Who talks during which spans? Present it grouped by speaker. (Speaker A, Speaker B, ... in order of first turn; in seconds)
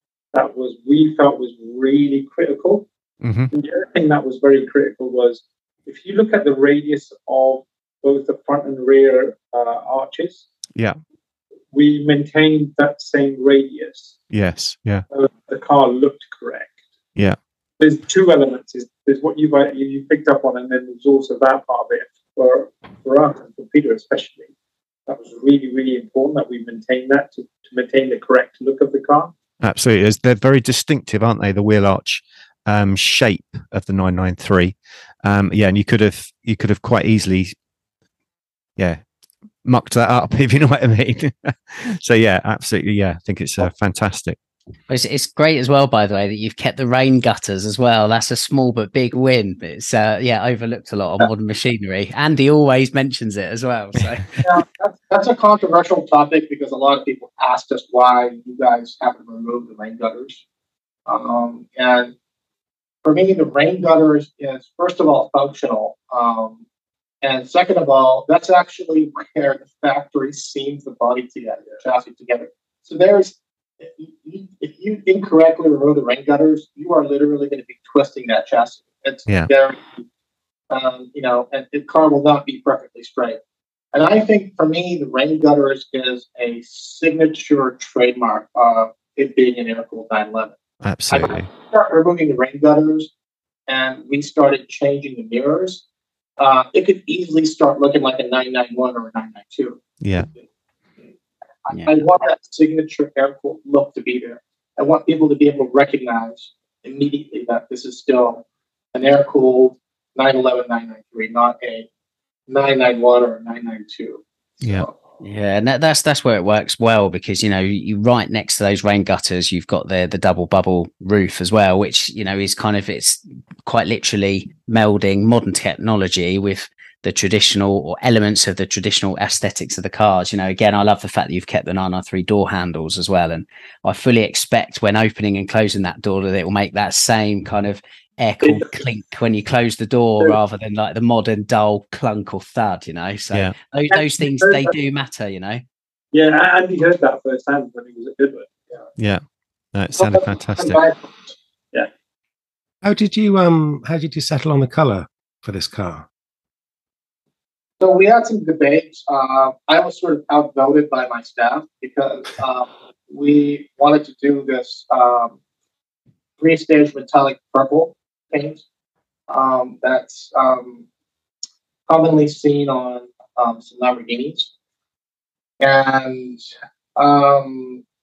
Speaker A: 0.3-2.9, 3.5-10.4, 11.7-14.2, 15.1-16.8, 17.8-24.5, 25.1-29.3, 138.4-138.7, 144.3-144.7, 146.1-148.5
Speaker B: 3.2-3.5, 14.3-15.1, 29.6-37.5, 39.6-44.4, 90.8-91.5, 100.0-100.3, 149.7-150.8
Speaker C: 44.9-54.3, 101.7-102.0, 115.2-145.6
Speaker D: 54.4-60.4, 61.1-62.1, 63.0-66.6, 67.2-80.0, 80.7-83.4, 83.9-90.6, 91.1-93.1, 93.7-95.8, 96.4-99.8, 101.7-111.9, 112.5-114.9, 150.0-151.3, 157.8-165.3, 166.4-168.6, 169.3-170.8, 171.9-174.5, 175.6-176.4, 177.0-177.8
Speaker E: 152.8-156.1